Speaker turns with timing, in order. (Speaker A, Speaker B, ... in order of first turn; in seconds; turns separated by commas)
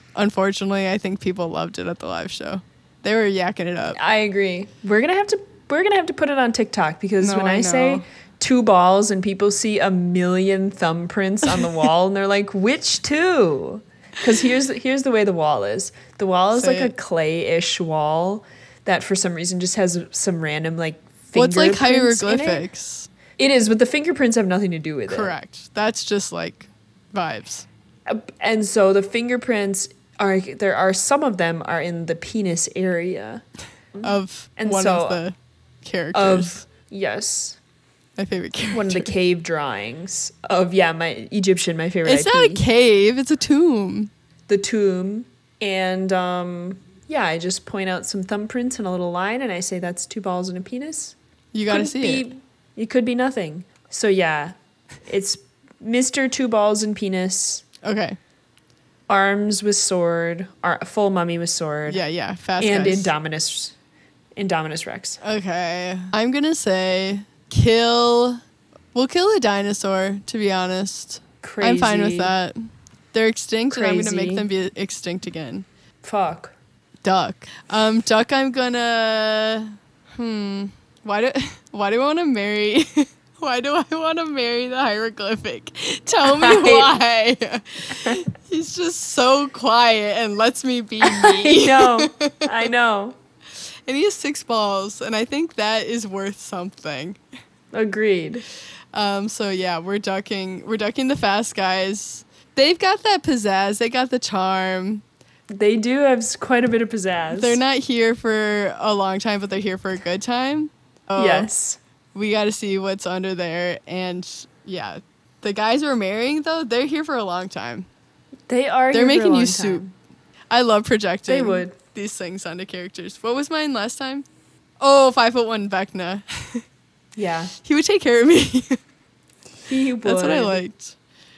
Speaker A: 0.1-4.0, Speaker B: 3.9-22.6, Speaker A: 7.2-8.0, Speaker A: 16.5-16.9, Speaker A: 21.3-23.1, Speaker B: 23.4-25.3, Speaker A: 25.1-27.6, Speaker B: 28.1-35.2, Speaker A: 34.0-36.6, Speaker B: 36.1-37.6, Speaker A: 38.2-39.1, Speaker B: 38.7-42.6, Speaker A: 42.0-44.1, Speaker B: 44.5-51.1, Speaker A: 51.5-52.3, Speaker B: 51.7-54.5, Speaker B: 55.1-57.6, Speaker A: 57.8-58.2, Speaker B: 59.1-62.0, Speaker A: 61.9-63.1, Speaker B: 62.6-63.7, Speaker B: 64.4-65.2, Speaker A: 65.2-68.4, Speaker A: 68.9-75.7, Speaker B: 71.4-72.3, Speaker B: 73.7-74.5, Speaker B: 76.0-76.5, Speaker A: 77.0-92.7, Speaker B: 86.2-87.0, Speaker B: 91.0-93.2, Speaker A: 93.9-97.2, Speaker B: 97.7-98.4, Speaker A: 98.9-105.0, Speaker B: 105.5-107.6, Speaker A: 107.3-111.5, Speaker B: 111.2-111.8, Speaker A: 112.1-117.9, Speaker B: 118.5-119.9, Speaker A: 118.9-119.8, Speaker A: 120.5-124.2, Speaker B: 121.3-121.7, Speaker A: 124.8-126.6, Speaker B: 127.1-127.5, Speaker A: 127.6-128.8, Speaker B: 129.6-130.6, Speaker A: 130.0-130.9